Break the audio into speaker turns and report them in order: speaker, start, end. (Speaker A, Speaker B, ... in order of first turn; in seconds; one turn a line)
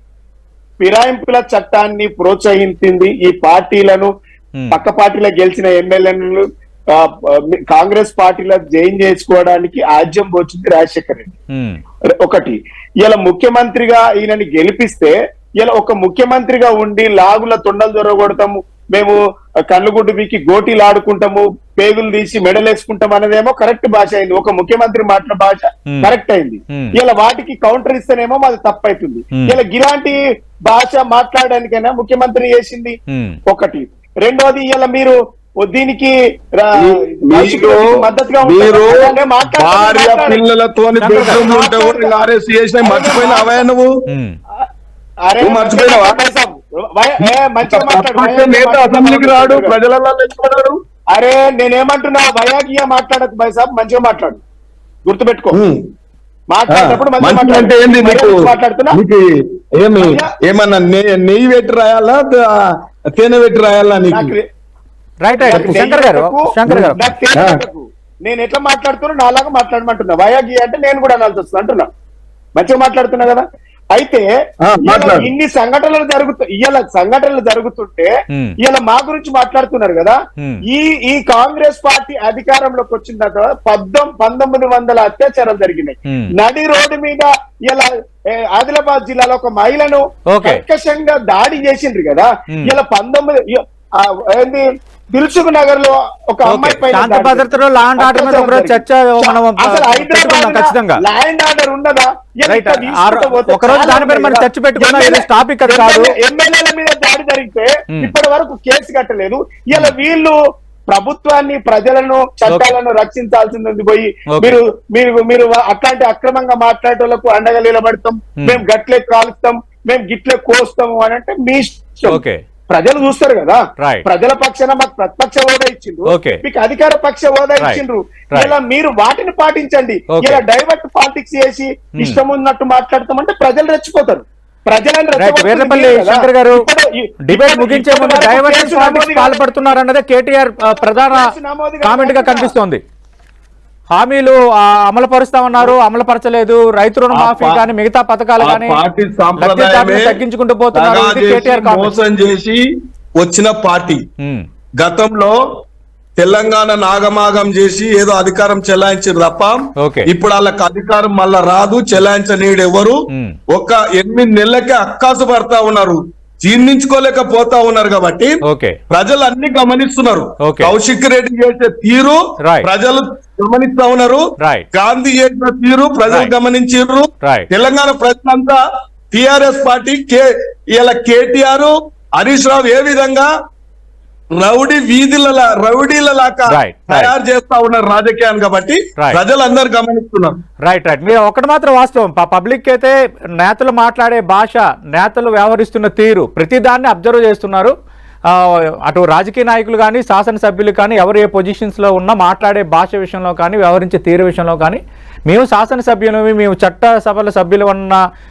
Speaker A: 0.8-4.1
Speaker A: 4.7-11.3
Speaker B: 11.5-11.8
Speaker A: 12.2-19.2
Speaker A: 19.7-33.0
Speaker B: 33.1-33.4
Speaker A: 33.5-40.4
Speaker C: 36.8-43.9
Speaker B: 41.0-41.4
Speaker A: 41.2-42.2
Speaker A: 42.8-43.7
Speaker B: 44.1-44.4
Speaker A: 45.3-49.8
Speaker C: 45.4-46.2
Speaker C: 47.2-50.8
Speaker A: 51.1-54.4
Speaker A: 55.0-55.6
Speaker C: 55.5-55.9
Speaker A: 56.5-59.0
Speaker C: 56.7-64.4
Speaker A: 60.0-60.3
Speaker A: 64.1-64.5
Speaker B: 65.2-67.1
Speaker A: 65.3-71.9
Speaker C: 65.5-65.8
Speaker C: 66.7-67.6
Speaker A: 72.6-74.3
Speaker C: 74.6-75.3
Speaker A: 74.8-78.1
Speaker A: 78.6-80.2
Speaker B: 80.4-80.6
Speaker A: 80.7-110.4
Speaker B: 90.3-90.6
Speaker B: 96.5-101.0
Speaker B: 102.5-106.2
Speaker A: 110.9-139.8
Speaker B: 112.5-112.7
Speaker B: 114.3-114.6
Speaker B: 122.1-122.4
Speaker B: 123.8-124.1
Speaker B: 126.1-126.4
Speaker B: 130.1-130.4
Speaker B: 135.2-136.7
Speaker B: 137.3-141.3
Speaker A: 140.8-142.5
Speaker B: 141.8-142.8
Speaker B: 143.9-148.8
Speaker C: 147.1-147.7
Speaker C: 148.4-150.2
Speaker B: 149.4-151.9
Speaker C: 150.7-154.1
Speaker B: 154.2-154.5
Speaker C: 154.8-155.4
Speaker C: 156.2-168.4
Speaker B: 159.8-160.1
Speaker B: 163.1-163.4
Speaker B: 168.4-168.8
Speaker C: 168.9-183.3
Speaker B: 170.4-170.7
Speaker B: 172.4-172.7
Speaker B: 174.4-174.7
Speaker B: 177.2-177.5
Speaker C: 184.3-190.4
Speaker B: 186.5-187.1
Speaker B: 190.7-197.7
Speaker B: 198.3-208.0